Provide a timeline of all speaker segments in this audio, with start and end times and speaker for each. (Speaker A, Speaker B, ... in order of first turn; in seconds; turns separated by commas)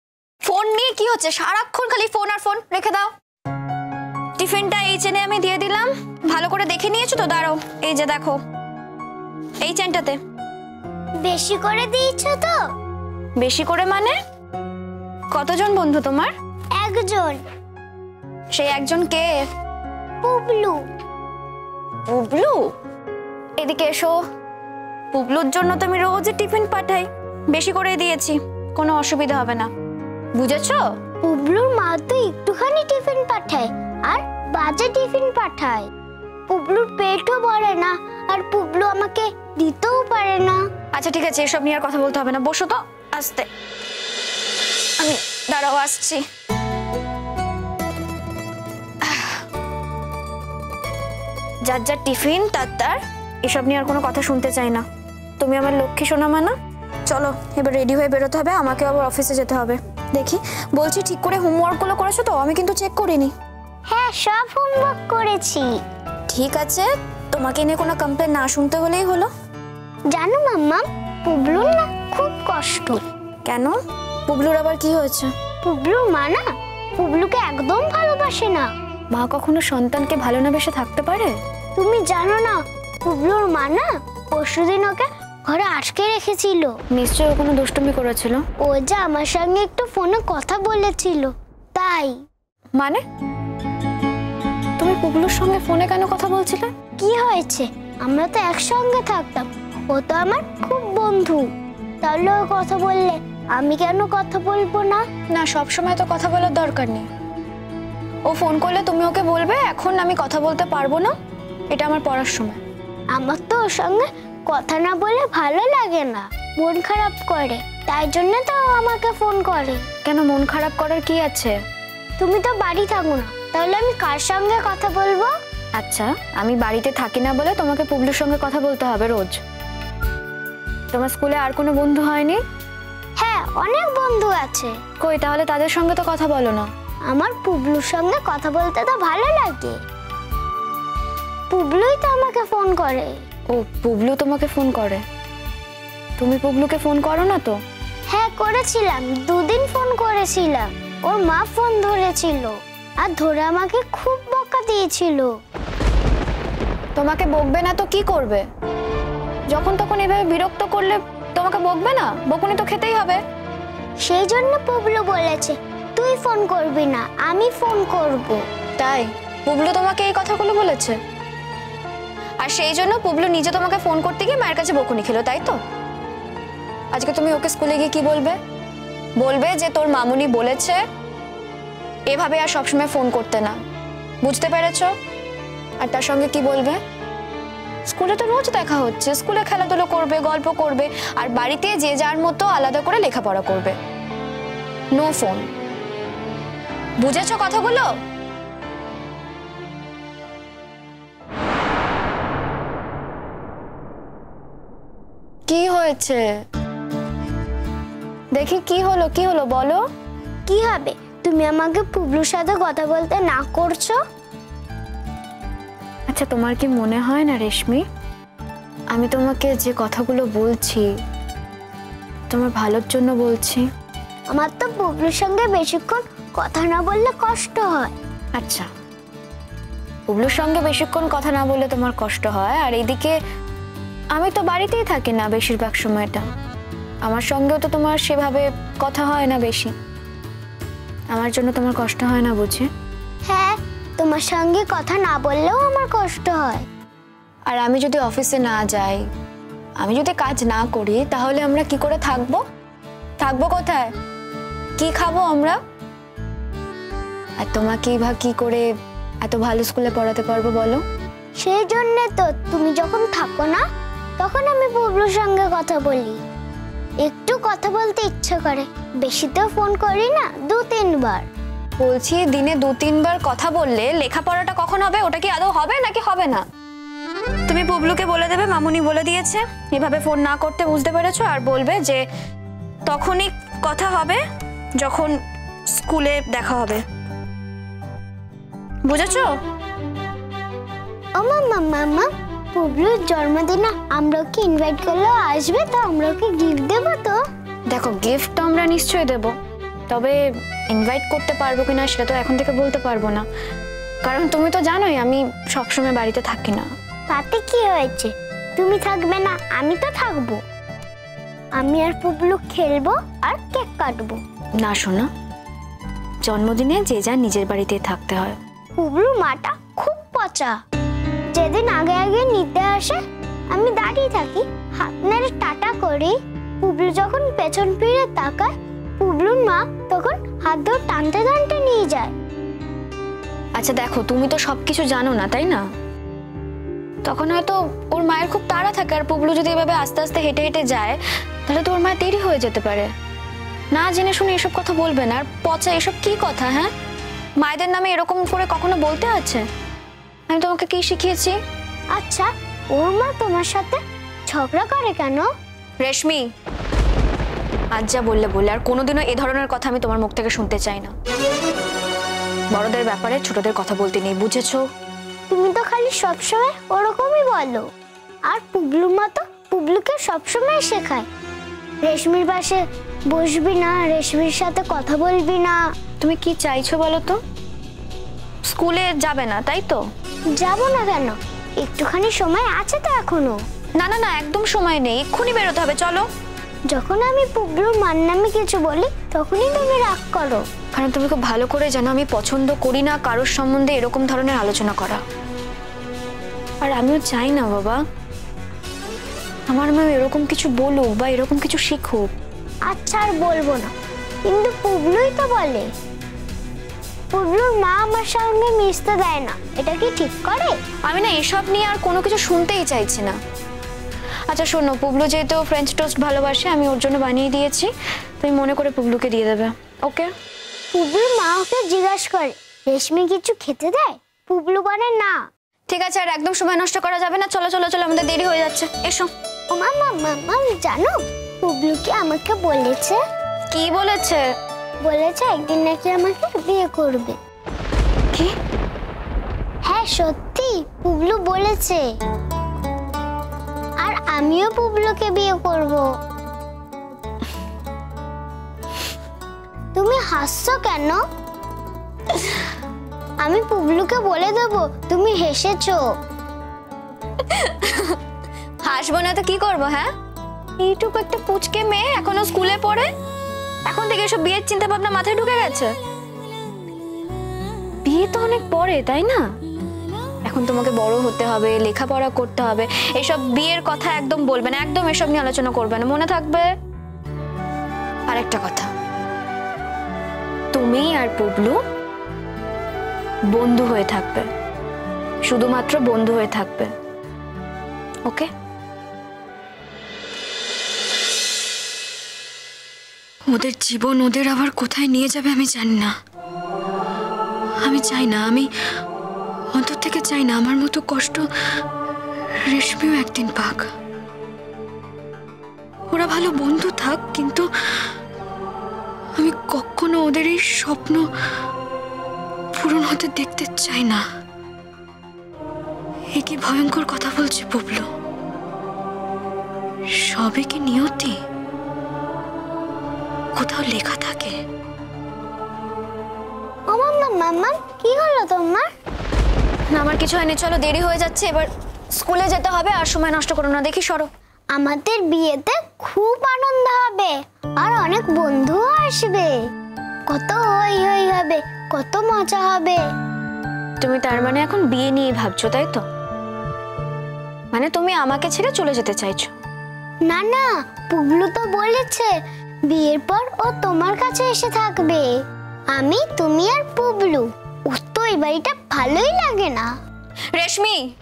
Speaker A: 0.4-3.1, Speaker A: 4.4-8.4, Speaker A: 9.6-10.2, Speaker B: 11.2-12.5, Speaker A: 13.4-14.1, Speaker A: 15.3-16.3, Speaker B: 16.8-17.4, Speaker A: 18.5-19.3, Speaker B: 20.2-20.8, Speaker A: 22.1-22.6, Speaker A: 23.6-24.1, Speaker A: 25.1-29.7, Speaker A: 30.3-30.8, Speaker B: 31.2-35.9, Speaker B: 36.5-40.6, Speaker A: 40.9-43.5, Speaker A: 45.0-46.2, Speaker A: 49.0-49.4, Speaker A: 51.6-54.8, Speaker A: 55.4-56.5, Speaker A: 57.1-63.3, Speaker B: 63.9-65.7, Speaker A: 66.3-69.3, Speaker B: 70.1-73.0, Speaker A: 73.4-73.8, Speaker A: 74.3-75.3, Speaker B: 75.6-76.4, Speaker B: 77.0-78.7, Speaker A: 79.1-81.3, Speaker B: 81.8-86.7, Speaker A: 86.9-88.4, Speaker B: 88.6-92.2, Speaker A: 94.8-96.7, Speaker B: 97.0-101.4, Speaker B: 102.0-105.0, Speaker A: 105.3-107.1, Speaker A: 108.3-111.1, Speaker A: 111.7-112.6, Speaker B: 113.1-119.8, Speaker A: 120.0-121.5, Speaker B: 122.2-125.3, Speaker A: 125.8-129.4, Speaker A: 130.9-132.4, Speaker B: 133.2-134.7, Speaker A: 135.0-136.7, Speaker B: 137.1-139.8, Speaker B: 141.5-143.1, Speaker A: 143.5-145.0, Speaker A: 146.2-147.6, Speaker B: 148.1-155.3, Speaker A: 156.9-158.4, Speaker A: 159.5-163.2, Speaker B: 164.0-168.4, Speaker A: 168.8-171.0, Speaker A: 172.4-175.6, Speaker A: 176.9-178.3, Speaker A: 179.2-180.8, Speaker A: 182.1-183.5, Speaker A: 184.2-184.9, Speaker A: 185.8-186.8, Speaker A: 187.9-193.7, Speaker A: 194.9-195.4, Speaker A: 197.0-197.9, Speaker A: 205.5-206.2, Speaker A: 208.3-209.8, Speaker B: 210.5-214.0, Speaker A: 216.1-217.8, Speaker A: 218.9-220.9, Speaker A: 222.3-223.6, Speaker B: 224.3-227.9, Speaker A: 228.3-228.7, Speaker A: 230.1-233.1, Speaker A: 234.1-236.2, Speaker A: 237.0-239.7, Speaker A: 241.1-242.7, Speaker B: 243.2-246.6, Speaker A: 247.5-249.0, Speaker A: 249.8-252.4, Speaker A: 253.2-253.9, Speaker A: 254.8-255.6, Speaker A: 257.4-258.6, Speaker A: 259.2-260.8, Speaker B: 261.4-263.6, Speaker B: 264.2-266.2, Speaker B: 267.0-271.3, Speaker A: 271.8-276.4, Speaker A: 277.5-282.0, Speaker A: 282.9-284.2, Speaker A: 284.8-285.1, Speaker A: 285.7-286.8, Speaker A: 288.9-289.3, Speaker B: 291.1-297.2, Speaker A: 297.7-299.3, Speaker A: 299.9-300.2, Speaker A: 300.7-303.2, Speaker A: 304.0-306.7, Speaker B: 307.1-310.4, Speaker B: 311.6-314.2, Speaker A: 314.6-315.1, Speaker A: 316.2-318.4, Speaker B: 318.8-320.6, Speaker B: 321.3-323.0, Speaker B: 323.5-332.1, Speaker A: 333.6-335.6, Speaker A: 337.0-342.9, Speaker A: 343.7-346.7, Speaker A: 347.4-349.4, Speaker A: 350.3-351.4, Speaker B: 351.9-355.3, Speaker A: 355.8-356.2, Speaker A: 357.7-360.9, Speaker A: 362.5-364.6, Speaker B: 365.3-367.6, Speaker B: 368.3-371.1, Speaker B: 371.8-375.6, Speaker A: 376.0-377.2, Speaker A: 378.5-379.8, Speaker B: 380.3-383.4, Speaker A: 383.8-386.1, Speaker B: 386.7-390.4, Speaker A: 390.7-395.0, Speaker A: 396.6-397.8, Speaker A: 399.5-402.1, Speaker B: 402.7-403.7, Speaker B: 404.2-405.7, Speaker B: 407.1-410.6, Speaker A: 410.9-413.1, Speaker A: 414.3-417.7, Speaker A: 418.2-420.1, Speaker B: 420.7-425.2, Speaker A: 425.7-429.1, Speaker B: 429.5-433.0, Speaker A: 433.5-434.2, Speaker B: 434.8-437.1, Speaker B: 439.6-441.8, Speaker B: 443.8-445.9, Speaker B: 449.7-451.0, Speaker B: 453.2-455.8, Speaker A: 457.3-458.0, Speaker A: 458.6-459.9, Speaker A: 460.6-462.9, Speaker A: 463.6-465.7, Speaker A: 467.8-469.2, Speaker A: 470.2-476.5, Speaker A: 478.1-478.7, Speaker A: 480.5-481.6, Speaker A: 483.3-484.3, Speaker A: 485.3-486.7, Speaker A: 493.3-495.9, Speaker A: 497.6-498.5, Speaker A: 499.5-501.2, Speaker A: 502.4-503.7, Speaker A: 505.9-507.5, Speaker A: 509.2-511.1, Speaker A: 512.5-514.0, Speaker A: 516.1-517.9, Speaker A: 520.0-521.1, Speaker A: 523.3-524.4, Speaker B: 526.7-528.7, Speaker A: 529.7-534.1, Speaker B: 534.5-539.4, Speaker B: 540.1-542.8, Speaker A: 543.8-545.8, Speaker A: 547.5-549.3, Speaker B: 550.1-552.1, Speaker B: 552.7-555.1, Speaker B: 555.7-559.7, Speaker A: 560.3-560.8